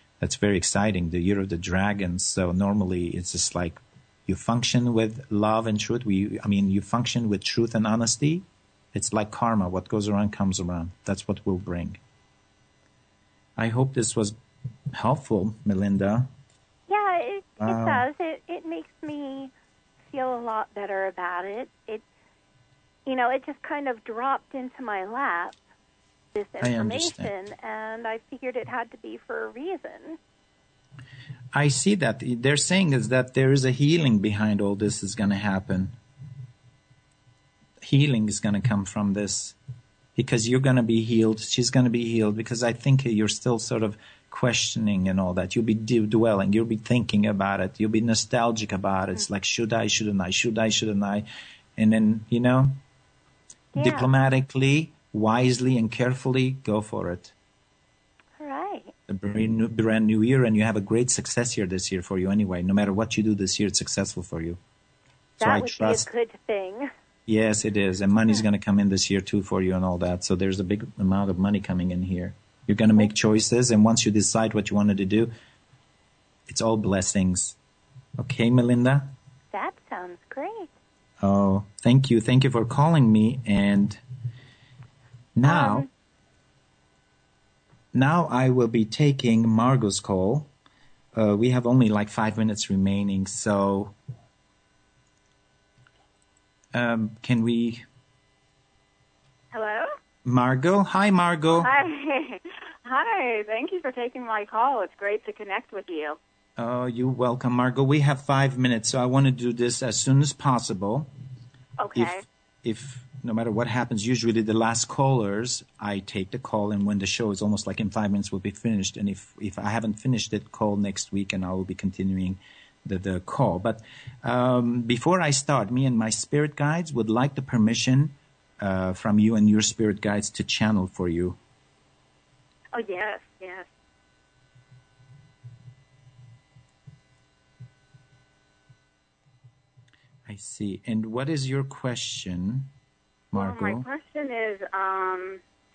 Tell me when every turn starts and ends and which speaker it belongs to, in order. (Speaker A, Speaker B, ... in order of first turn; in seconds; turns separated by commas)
Speaker A: 0.2-12.0, Speaker A: 13.6-14.3, Speaker A: 14.9-16.3, Speaker B: 16.9-19.5, Speaker A: 17.6-18.0, Speaker B: 20.1-22.0, Speaker B: 23.1-25.6, Speaker B: 26.3-30.2, Speaker A: 26.6-27.3, Speaker A: 31.5-36.0, Speaker A: 37.8-39.6, Speaker A: 40.1-51.2, Speaker A: 51.8-52.8, Speaker B: 53.7-54.1, Speaker A: 53.8-57.3, Speaker B: 58.4-58.9, Speaker A: 59.1-64.6, Speaker A: 65.4-66.1, Speaker B: 65.4-66.9, Speaker A: 67.3-75.3, Speaker A: 76.5-77.6, Speaker A: 78.2-79.1, Speaker B: 79.5-80.7, Speaker A: 81.2-84.0, Speaker A: 85.3-85.9, Speaker B: 85.5-85.9, Speaker A: 87.9-90.5, Speaker A: 91.1-93.9, Speaker A: 96.7-97.8, Speaker C: 99.5-99.9, Speaker A: 100.2-101.7, Speaker C: 101.5-106.2, Speaker A: 106.6-111.1, Speaker C: 111.8-112.2, Speaker A: 111.9-131.4, Speaker C: 132.7-133.7, Speaker A: 140.2-142.7, Speaker A: 143.3-143.9, Speaker C: 143.3-145.4